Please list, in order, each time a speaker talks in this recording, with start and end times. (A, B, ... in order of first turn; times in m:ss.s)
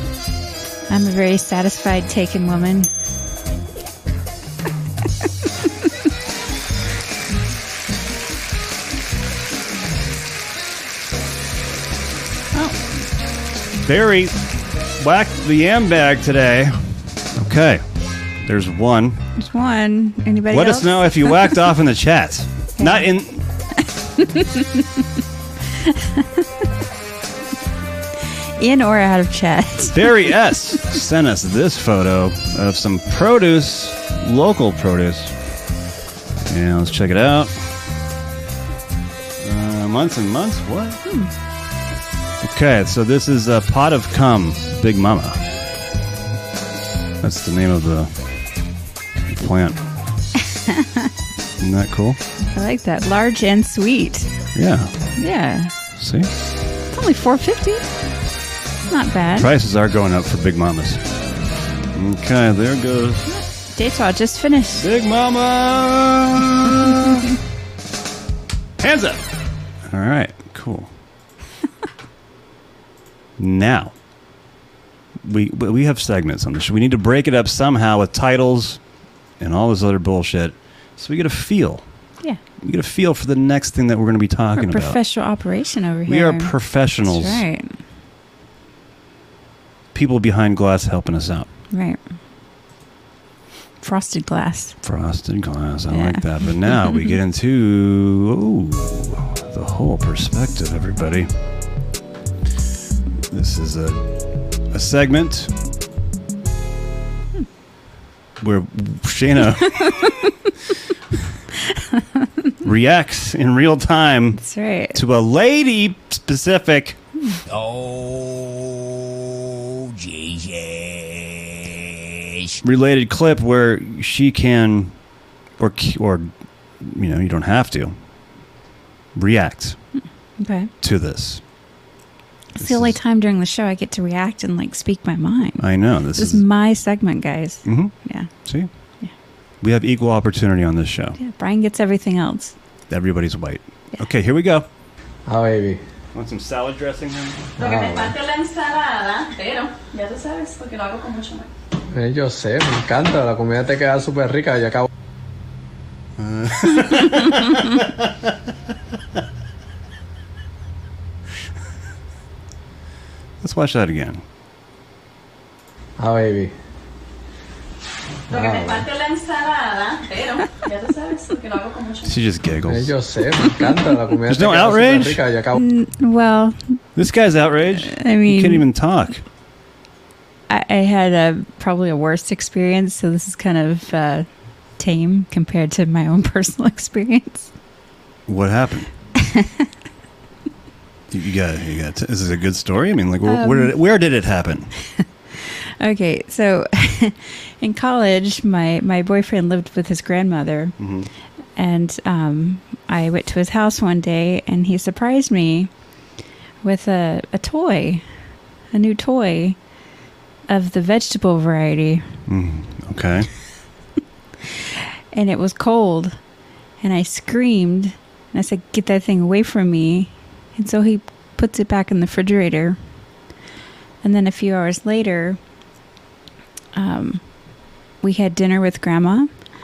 0:00.9-0:02.9 A
0:13.8-0:14.3 B
0:15.0-0:16.8 B
0:17.3-0:17.8 B
0:18.4-0:19.2 B
0:19.4-0:21.5 A
0:20.5-0:23.4 B
0:22.8-0:23.1 A
0:24.2-0:24.8 A
0:25.8-0:26.4 A
0:28.6-0:30.3 A
0:29.9-0:35.3 B
0:36.5-0:37.7 B
0:39.4-0:41.0 B
0:41.0-0:41.3 A
0:42.4-0:45.4 B
0:47.2-0:48.1 B
0:49.3-0:49.8 B
0:51.6-0:52.2 B
0:52.5-0:54.3 A
0:54.5-0:54.9 B
0:55.2-0:55.7 A
0:56.0-0:56.3 B
0:56.9-0:57.8 A
0:58.9-0:59.5 A
0:59.4-1:01.0 B
1:01.9-1:03.2 B
1:03.3-1:04.8 A
1:04.8-1:07.2 B
1:08.8-1:09.2 B
1:09.8-1:10.9 B
1:13.4-1:13.9 B
1:15.2-1:18.8 B
1:19.4-1:21.8 B
1:22.6-1:25.0 B
1:24.6-1:26.5 A
1:26.1-1:27.4 B
1:27.0-1:27.8 A
1:29.9-1:31.5 B
1:31.7-1:32.0 A
1:33.8-1:34.8 A
1:34.8-1:41.3 B
1:35.9-1:37.1 A
1:43.3-1:44.0 B
1:44.7-1:45.5 B
1:48.4-1:50.3 B
1:49.8-1:50.1 A
1:52.6-1:54.4 B
1:54.4-1:55.0 A
1:54.9-1:57.0 B
1:57.5-2:02.6 C
2:02.6-2:04.9 B
2:05.6-2:08.0 B
2:09.2-2:09.8 B
2:10.0-2:10.7 A
2:10.8-2:11.4 B
2:12.5-2:15.6 A
2:12.6-2:13.0 B
2:15.6-2:16.4 B
2:16.2-2:18.3 A
2:17.6-2:17.9 B
2:19.6-2:21.2 B
2:21.2-2:22.5 A
2:22.9-2:24.6 B
2:25.3-2:25.8 D
2:26.1-2:27.4 B
2:27.6-2:31.5 E
2:27.6-2:28.1 D
2:31.9-2:34.9 D
2:36.2-2:37.9 B
2:43.4-2:44.2 B
2:46.0-2:46.5 D
2:48.3-2:52.2 E
2:48.3-2:48.8 D
2:52.0-2:52.9 B
2:52.7-2:55.6 D
2:54.3-2:55.2 B
2:55.5-2:56.8 A
2:57.0-2:59.2 B
2:57.8-2:58.6 A
3:00.5-3:07.5 A
3:08.3-3:08.9 B
3:09.2-3:09.6 A
3:11.1-3:14.7 B
3:13.3-3:13.7 A
3:15.4-3:20.7 A
3:20.8-3:21.1 B
3:21.6-3:25.7 A
3:26.6-3:28.0 A
3:28.7-3:29.6 A
3:30.5-3:32.0 A
3:32.3-3:33.3 B
3:35.1-3:36.2 A
3:36.8-3:42.8 A
3:44.0-3:45.4 A
3:46.7-3:47.2 A
3:48.0-3:49.3 A